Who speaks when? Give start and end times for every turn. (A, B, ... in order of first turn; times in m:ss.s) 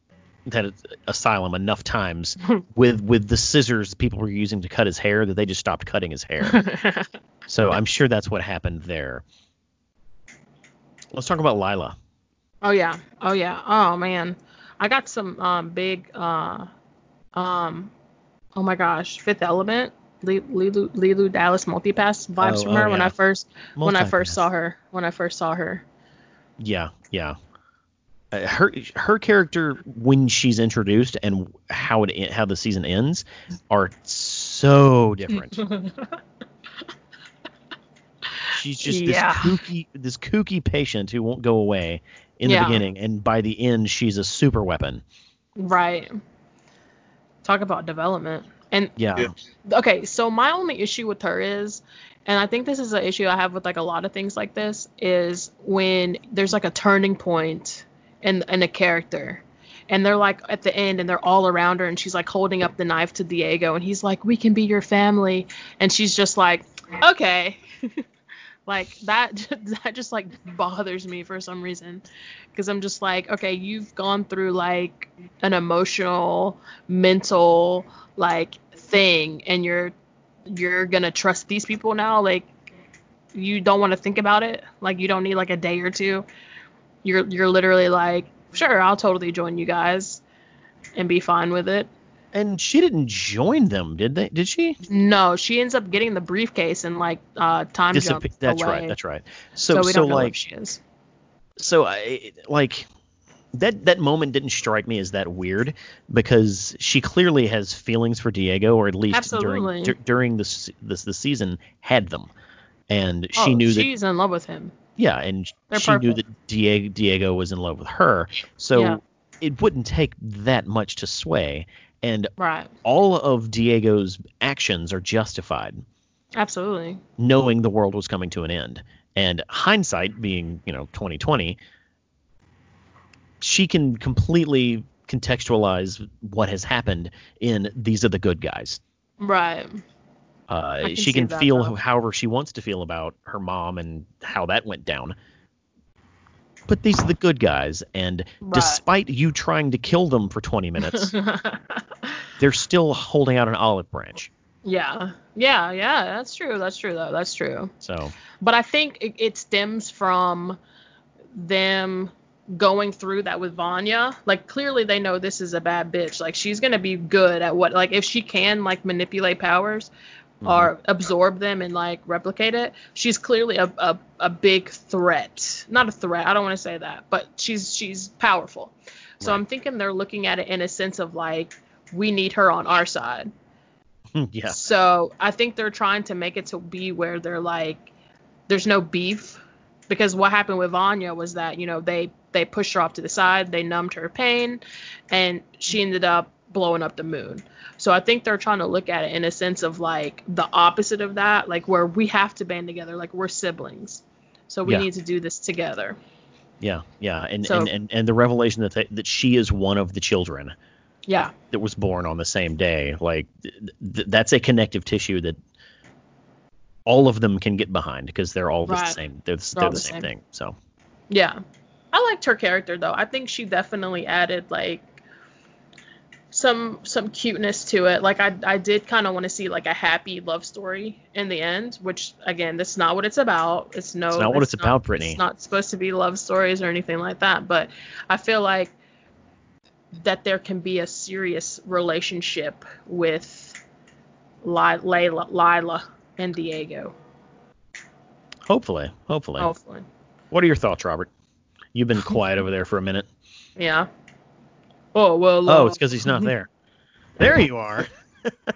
0:00.5-0:06.6 A
0:06.4-0:07.1 B
0:07.5-0:09.2 A
0:11.1-0:12.0 A
0:12.6-0:16.7 B
0:17.3-0:17.9 B
0:18.5-0:25.8 B
0:22.4-0:23.1 A
0:23.8-0:24.4 A
0:26.6-0:27.4 A
0:28.3-0:35.6 A
0:35.5-0:36.2 B
0:38.4-0:39.6 B
0:38.5-0:45.0 A
0:42.4-0:42.8 B
0:45.6-0:46.1 B
0:47.4-0:49.0 B
0:49.0-0:49.3 A
0:49.6-1:08.0 B
1:08.7-1:19.9 B
1:20.5-1:22.5 B
1:23.3-1:26.2 B
1:27.0-1:30.2 B
1:31.0-1:31.9 B
1:32.3-1:34.8 A
1:34.9-1:39.0 B
1:37.9-1:40.3 A
1:39.7-1:40.8 B
1:41.6-1:42.9 A
1:43.6-1:52.3 A
1:49.1-1:50.0 B
1:52.9-1:53.9 A
1:53.4-1:54.7 B
1:55.0-2:02.3 A
1:55.7-1:56.2 B
1:58.7-1:59.0 B
2:02.4-2:02.7 B
2:02.8-2:05.8 A
2:06.4-2:07.0 B
2:07.2-2:11.6 A
2:13.4-2:18.8 A
2:19.2-2:19.8 B
2:20.5-2:25.1 A
2:20.8-2:21.7 B
2:26.7-2:31.1 A
2:28.4-2:28.8 B
2:30.8-2:32.1 B
2:32.4-2:34.3 A
2:34.6-2:37.7 B
2:37.8-2:38.1 A
2:38.4-2:40.6 B
2:41.3-2:49.9 B
2:50.4-2:50.7 A
2:50.4-3:03.3 B
3:04.1-3:04.6 A
3:04.5-3:07.9 B
3:08.5-3:26.0 B
3:26.6-3:30.5 A
3:27.4-3:27.7 B
3:31.1-3:31.3 B
3:31.5-3:35.4 A
3:36.8-3:40.5 A
3:38.7-3:39.0 B
3:39.6-3:40.1 B
3:41.1-3:41.4 B
3:41.9-3:44.9 B
3:46.3-3:58.7 B
3:54.1-3:55.2 A
4:00.0-4:03.6 B
4:04.4-4:06.9 B
4:08.5-4:09.5 A
4:09.4-4:09.8 B
4:10.3-4:11.1 A
4:11.7-4:13.1 A
4:13.6-4:13.9 B
4:14.9-4:16.3 B
4:15.5-4:16.5 A
4:17.2-4:17.9 A